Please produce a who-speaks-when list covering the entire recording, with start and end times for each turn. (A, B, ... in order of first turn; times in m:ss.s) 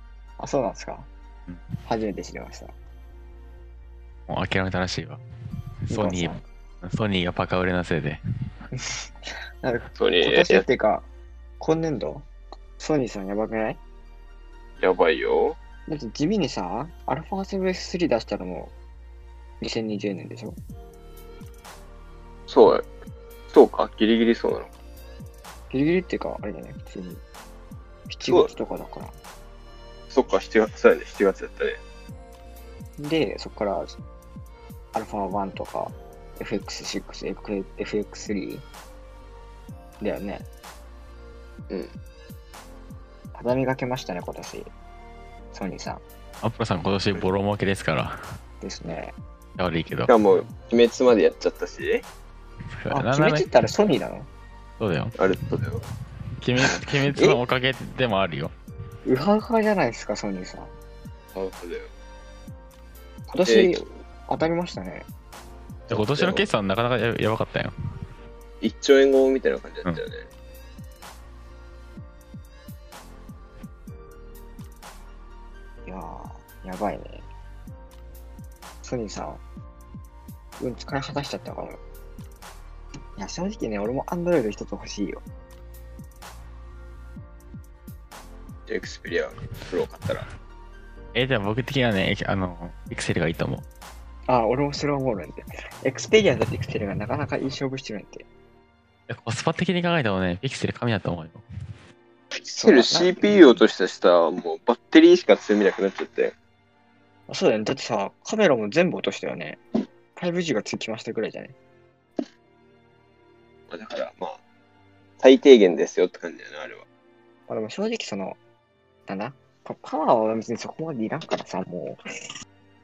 0:00.4-0:01.1 A
0:01.9-0:02.7 A
0:04.3-0:05.2 B
0:05.9-0:08.2 B
0:05.9-0:06.4 A
0:08.7-0:09.0 A
0:09.6-0:11.1 A
0:10.0-0:10.6 C
0:11.6-0:12.3 A
0:12.8-0:13.8 A
0:14.8-0:15.6 C
0:15.9-0:18.7 A
0:19.6-0:20.6 A
0:22.5-0:22.9 C
0:23.5-0:24.7 C
0:25.7-0:27.2 A
0:28.1-0:29.1 A
0:30.1-0:31.8 C
0:33.0-0:34.0 A
0:34.9-0:38.6 A
0:40.0-0:40.5 A
0:43.4-0:44.7 A
0:45.5-0:46.0 A
0:46.4-0:48.2 B
0:48.6-0:49.2 A
0:49.6-0:50.1 B
0:50.1-0:52.0 C
0:52.7-0:53.5 B
0:52.9-0:54.3 A
0:54.8-0:55.2 B
0:55.2-0:55.8 C
0:56.4-0:58.5 B
0:59.1-1:00.7 A
1:01.3-1:01.9 C
1:03.3-1:05.1 A
1:03.5-1:03.8 C
1:05.9-1:06.5 C
1:05.9-1:07.7 B
1:08.6-1:10.3 C
1:15.9-1:17.3 A
1:18.8-1:19.4 A
1:20.6-1:21.8 A
1:23.2-1:25.2 A
1:28.7-1:30.3 C
1:31.1-1:33.6 B
1:34.3-1:38.2 A
1:39.1-1:41.4 B
1:42.3-1:46.3 C
1:42.6-1:43.6 A
1:47.3-1:49.6 A
1:50.2-1:51.6 A
1:53.7-1:54.4 C
1:55.2-1:56.8 C
1:57.5-1:58.4 A
1:59.1-2:02.0 A